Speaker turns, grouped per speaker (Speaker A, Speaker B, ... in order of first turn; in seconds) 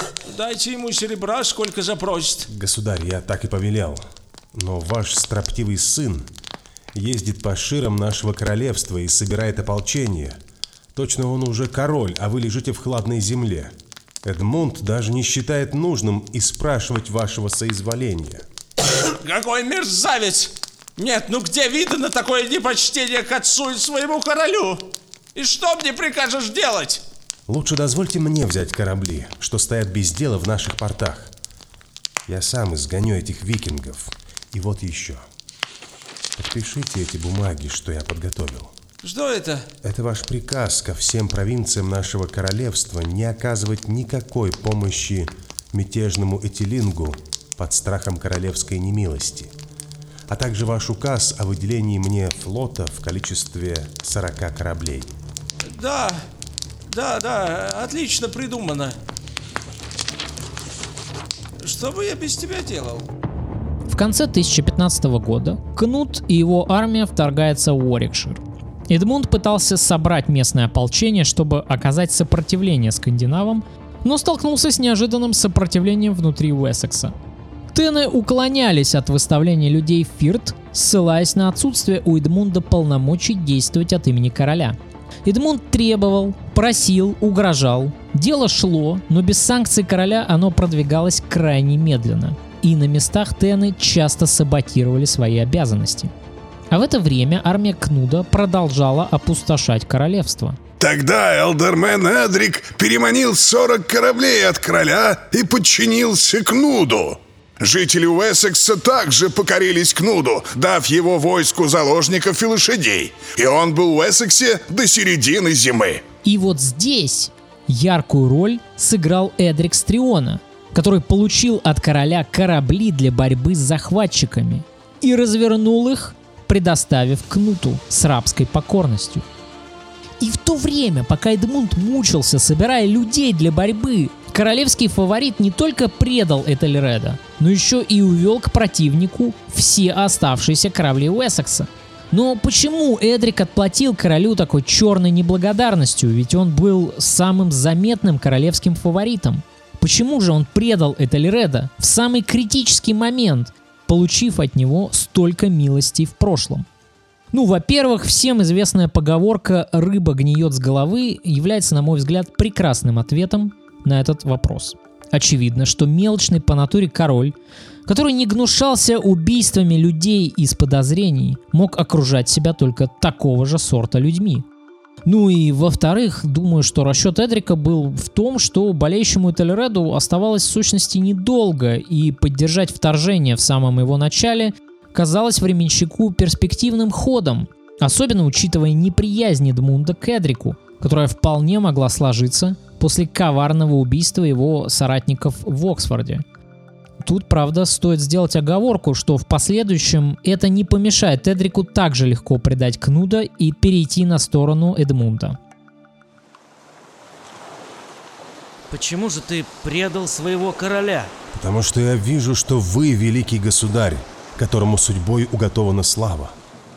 Speaker A: 0.3-2.5, 19.2-27.0, 39.0-39.7, 55.6-56.2, 56.9-59.0, 61.6-63.1
Speaker B: 2.5-6.3, 6.9-10.4, 10.9-18.5, 27.5-31.3, 32.3-35.3, 36.4-38.7, 39.8-49.5, 50.3-55.1, 211.3-216.4
Speaker C: 63.9-77.1, 77.7-96.1, 96.7-100.6, 116.2-129.2, 130.2-156.7, 157.3-167.3, 167.9-174.4, 175.1-196.2, 197.0-205.4
Speaker D: 100.8-116.0
Speaker E: 208.7-211.1